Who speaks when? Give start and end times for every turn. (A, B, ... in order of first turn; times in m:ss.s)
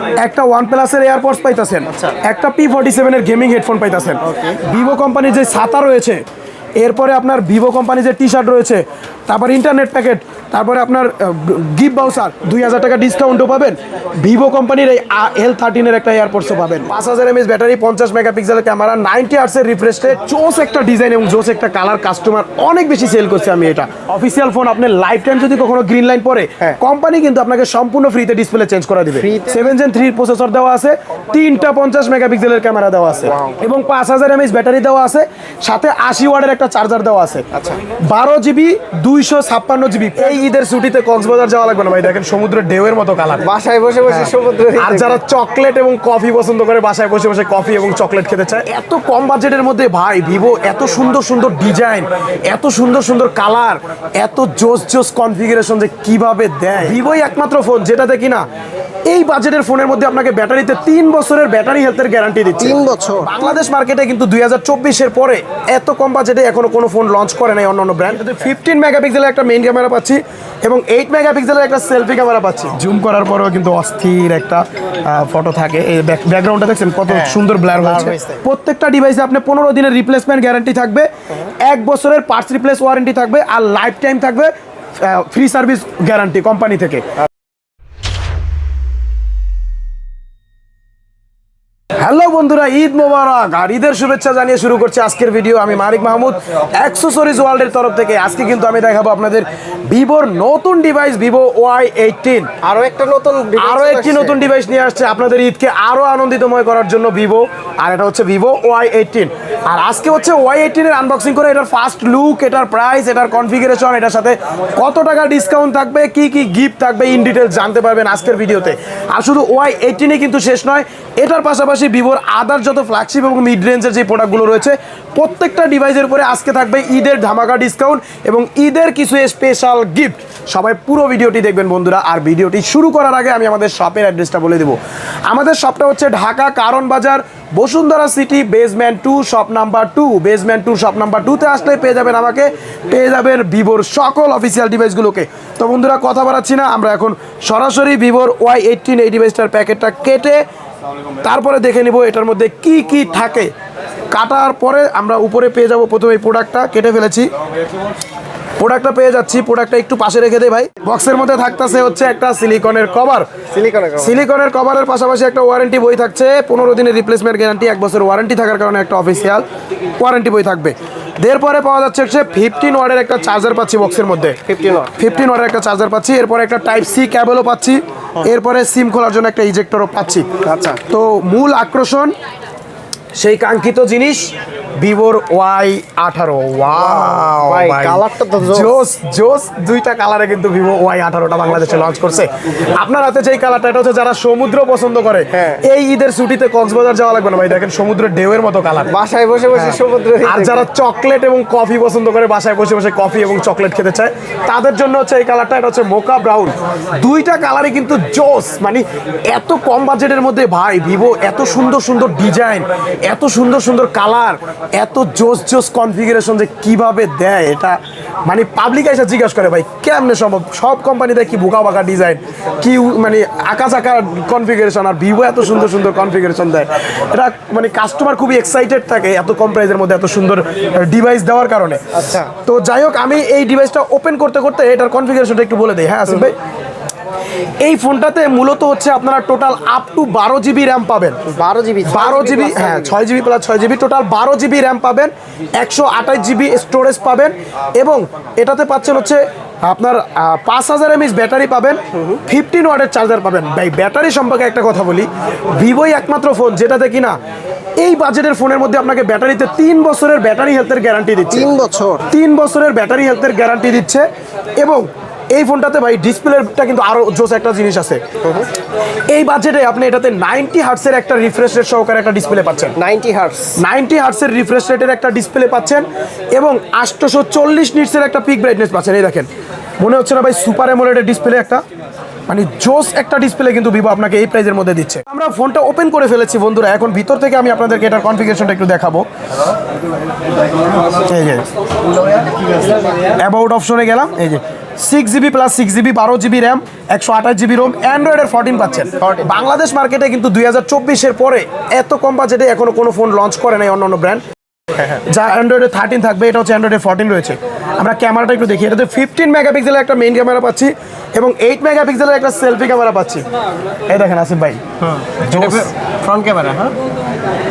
0:00.2-0:06.2 A
0:04.3-0:04.6 B
0:06.8-0:37.4 A
0:29.1-0:29.7 B
0:33.3-0:33.6 B
0:37.5-0:37.8 B
0:38.1-0:43.5 A
0:43.4-0:45.2 B
0:44.1-0:58.5 A
0:59.1-1:21.1 A
1:02.6-1:03.3 B
1:17.1-1:18.4 B
1:21.6-1:27.0 A
1:32.0-1:42.5 A
1:42.6-1:44.5 B
1:43.6-2:30.4 A
2:31.2-2:33.5 A
2:34.1-2:37.3 A
2:38.6-2:43.3 A
2:43.5-2:44.2 B
2:44.0-2:49.4 A
2:50.0-2:54.4 A
2:54.5-2:54.9 B
2:55.0-3:00.3 A
3:00.4-3:00.8 B
3:00.9-3:02.2 A
3:03.2-3:19.0 A
3:06.8-3:08.8 B
3:15.3-3:15.6 B
3:18.9-3:20.7 B
3:19.6-3:56.4 A
3:51.9-3:52.3 B
3:57.6-4:01.2 A
4:01.3-4:03.0 B
4:01.8-4:17.2 A
4:17.8-4:21.5 A
4:21.3-4:22.1 B
4:22.1-4:24.1 A
4:24.6-4:28.0 A
4:28.2-4:28.5 B
4:29.1-4:32.8 A
4:32.8-4:33.6 B
4:33.6-4:39.3 A
4:39.8-4:41.6 A
4:42.3-4:49.1 A
4:51.0-4:51.5 A
4:52.3-4:52.7 B
4:53.2-5:04.2 A
4:59.0-4:59.4 B
5:04.9-5:13.2 A
5:13.9-5:14.6 A
5:14.8-5:16.8 B
5:15.3-5:15.7 A